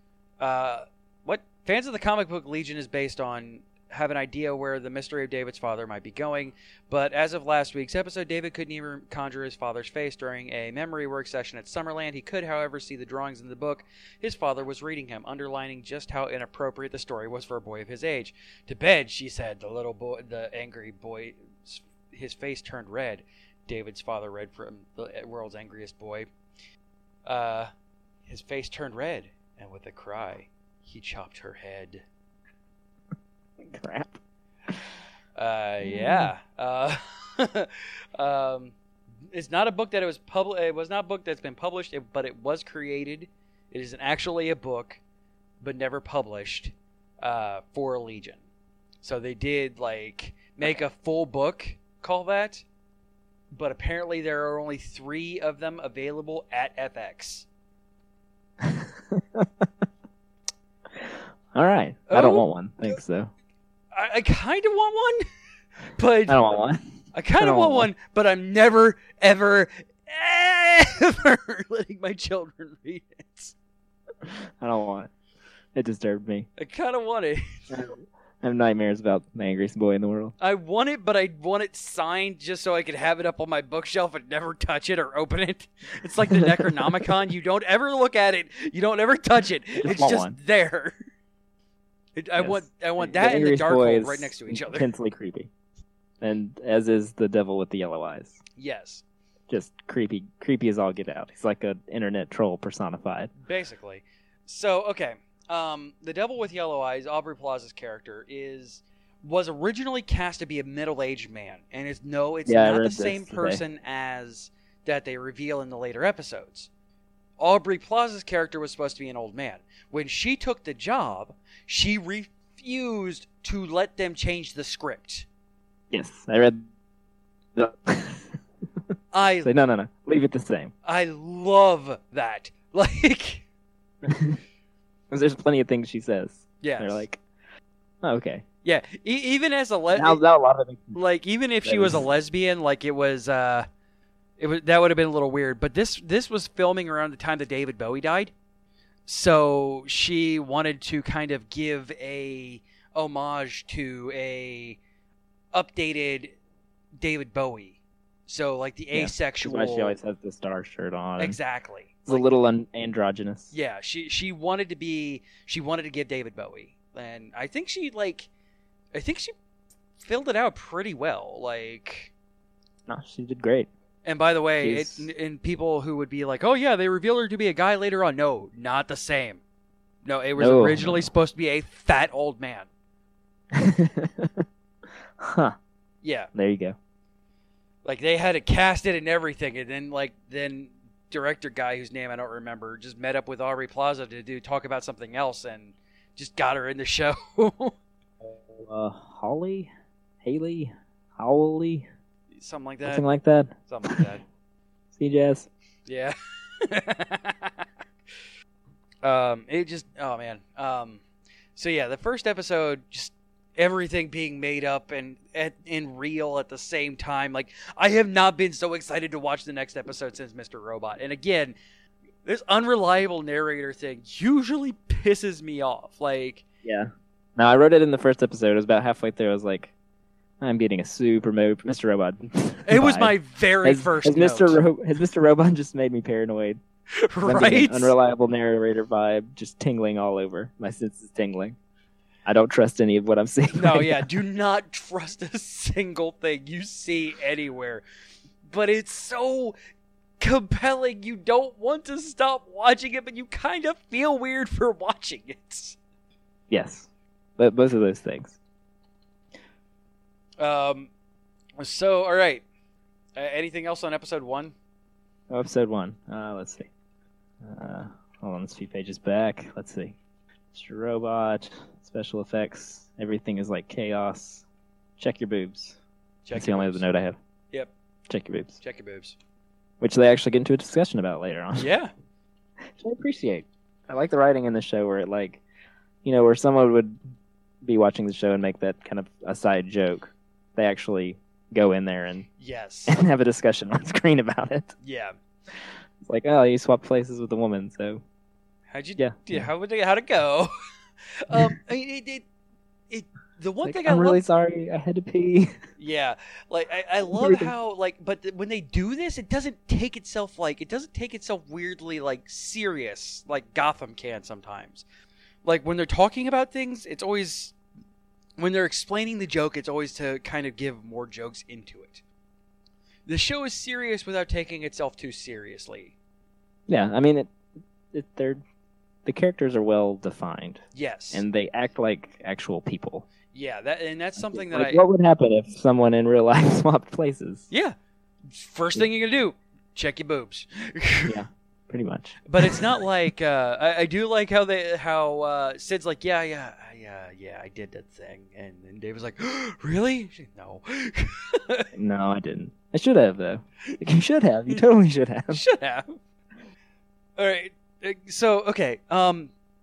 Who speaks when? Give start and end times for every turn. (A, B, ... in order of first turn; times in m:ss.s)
0:00.4-0:26.3 A
0:27.3-0:27.7 A
0:28.3-0:32.0 A
0:33.6-0:34.8 B
0:35.4-0:38.8 A
0:35.8-0:36.3 B
0:39.3-0:45.0 A
0:45.6-0:48.4 A
0:49.0-0:52.6 A
0:53.5-0:57.5 A
0:58.6-0:59.7 B
1:01.0-1:03.3 B
1:02.1-1:03.0 A
1:03.9-1:05.2 A
1:06.0-1:06.4 A
1:06.3-1:06.8 B
1:07.1-1:13.5 A
1:07.4-1:07.9 B
1:14.2-1:15.1 B
1:15.8-1:16.5 B
1:16.6-1:17.7 A
1:17.7-1:20.4 B
1:20.4-1:31.0 A
1:26.3-1:26.9 B
1:29.8-1:30.4 B
1:32.2-1:34.9 A
1:32.4-1:35.5 B
1:36.2-1:38.4 B
1:38.6-1:39.0 A
1:39.5-1:43.3 B
1:43.4-1:56.7 A
1:52.5-1:53.6 B
1:57.4-2:05.3 A
2:05.9-2:06.7 B
2:07.6-2:08.4 B
2:09.1-2:09.5 A
2:09.4-2:10.7 B
2:10.8-2:13.4 A
2:14.0-2:14.4 B
2:15.1-2:17.2 B
2:16.6-2:17.1 A
2:18.0-2:18.4 B
2:18.6-2:20.2 A
2:19.9-2:21.0 B
2:20.9-2:23.7 A
2:21.6-2:22.0 B
2:24.4-2:28.3 A
2:29.1-2:34.8 A
2:35.5-2:36.4 A
2:37.0-2:40.0 A
2:38.9-2:41.4 B
2:41.2-2:42.3 A
2:42.1-2:43.5 B
2:43.5-2:48.3 A
2:48.9-2:49.3 A
2:50.0-2:52.1 A
2:52.9-2:53.7 B
2:54.0-2:59.4 A
2:54.6-2:55.1 B
3:00.0-3:02.7 A
3:00.4-3:01.1 B
3:03.5-3:04.4 B
3:05.2-3:05.6 B
3:06.0-3:06.3 A
3:06.3-3:06.8 B
3:07.8-3:17.8 A
3:18.2-3:19.7 B
3:20.2-3:21.9 B
3:22.3-3:23.1 A
3:22.8-3:24.0 B
3:23.7-3:24.2 A
3:24.9-3:25.5 B
3:25.9-3:27.6 A
3:29.0-3:31.0 A
3:31.6-3:41.6 A
3:42.2-3:46.4 A
3:46.6-3:49.7 B
3:50.4-3:56.6 B
3:52.7-3:54.6 A
3:57.0-3:58.0 A
3:57.2-4:01.6 B
4:02.2-4:04.1 B
4:03.5-4:07.8 A
4:08.4-4:09.6 A
4:10.2-4:15.8 A
4:16.5-4:18.4 B
4:20.4-4:20.9 A
4:21.6-4:22.4 A
4:23.2-4:24.5 A
4:25.3-4:26.7 B
4:27.4-4:30.0 B
4:30.5-4:34.5 B
4:35.0-4:35.8 B
4:36.2-4:36.9 A
4:36.3-4:37.2 B
4:38.1-4:38.6 B
4:38.6-4:39.2 A
4:39.8-4:41.7 B
4:41.6-4:41.9 A
4:42.6-4:45.4 B
4:46.0-4:47.0 B
4:47.6-4:52.3 B
4:52.4-4:53.0 A
4:52.9-4:54.8 B
4:54.8-4:55.1 A
4:56.0-4:58.0 B
4:58.7-5:00.5 A
4:59.0-4:59.5 B
5:01.2-5:02.2 A
5:02.9-5:04.2 A
5:03.6-5:05.6 B
5:05.8-5:14.8 A
5:07.1-5:07.5 B
5:15.4-5:17.5 A
5:18.4-5:22.0 A
5:23.1-5:25.9 A
5:26.7-5:27.3 B
5:27.9-5:28.4 B
5:29.0-5:33.1 B
5:30.7-5:31.2 A
5:33.3-5:34.8 A
5:34.2-5:37.5 B
5:38.3-5:41.2 A
5:41.1-5:42.7 B
5:42.3-5:51.7 A
5:51.7-5:55.4 B
5:55.3-5:56.0 A
5:57.2-5:59.3 A